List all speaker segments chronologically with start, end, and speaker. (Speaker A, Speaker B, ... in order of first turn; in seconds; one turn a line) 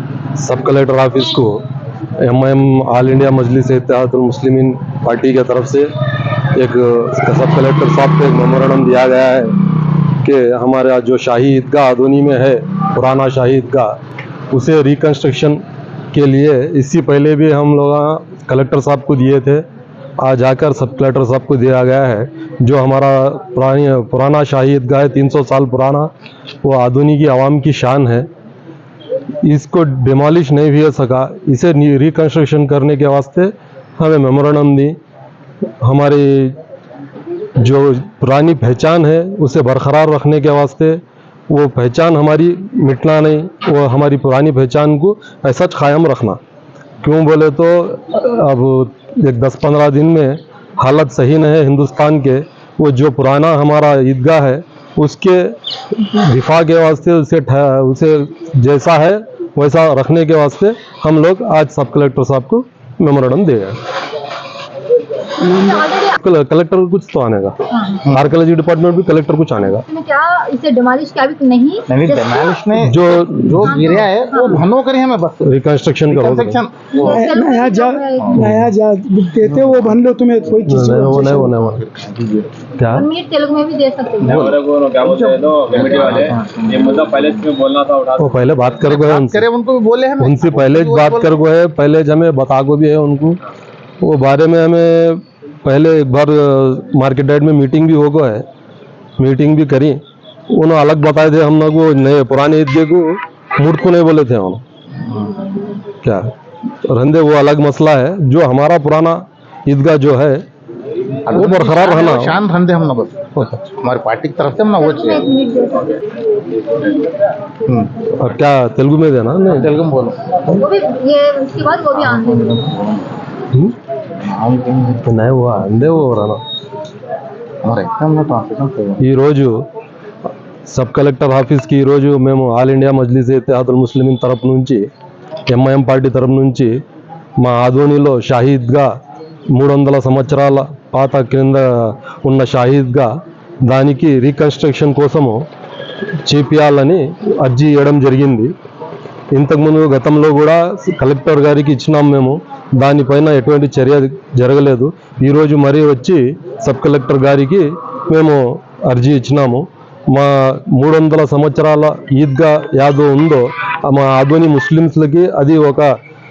Speaker A: 0.4-1.6
Speaker A: 2.2-5.9
Speaker A: 6.5-9.6
Speaker A: 10.2-13.9
Speaker A: 14.5-15.6
Speaker A: 16.1-19.6
Speaker A: 20.2-26.1
Speaker A: 26.6-28.3
Speaker A: 29.4-35.0
Speaker A: 35.8-36.6
Speaker A: 37.6-46.4
Speaker A: 47.0-63.8
Speaker B: 65.5-66.2
Speaker A: 66.1-69.8
Speaker B: 67.7-68.0
Speaker C: 68.0-68.3
Speaker B: 69.8-72.6
Speaker C: 71.9-75.5
Speaker A: 72.8-73.9
Speaker B: 73.7-74.6
Speaker A: 75.5-76.6
Speaker C: 76.1-77.3
Speaker B: 77.0-78.4
Speaker D: 77.0-81.5
Speaker C: 78.2-78.6
Speaker A: 78.4-78.7
Speaker C: 79.4-80.0
Speaker A: 80.7-81.8
Speaker C: 81.2-82.5
Speaker A: 82.8-83.1
Speaker B: 82.9-84.5
Speaker C: 84.2-87.5
Speaker E: 84.5-88.3
Speaker A: 88.2-89.5
Speaker C: 88.8-91.4
Speaker A: 90.2-93.4
Speaker A: 94.0-98.5
Speaker A: 99.2-100.0
Speaker A: 100.5-104.6
Speaker C: 105.0-105.5
Speaker A: 106.0-106.3
Speaker A: 106.9-110.4
Speaker C: 111.3-115.3
Speaker A: 111.3-112.4
Speaker B: 114.8-116.0
Speaker C: 117.7-118.1
Speaker A: 118.2-119.7
Speaker C: 119.5-120.2
Speaker B: 120.5-122.5
Speaker C: 122.0-123.1
Speaker C: 124.1-125.1
Speaker A: 125.1-126.4
Speaker C: 127.6-129.0
Speaker A: 129.0-129.5
Speaker A: 130.7-134.8
Speaker A: 135.5-136.7
Speaker A: 137.4-138.9
Speaker A: 139.5-143.1
Speaker A: 143.6-145.4
Speaker A: 146.2-148.5
Speaker A: 149.3-165.9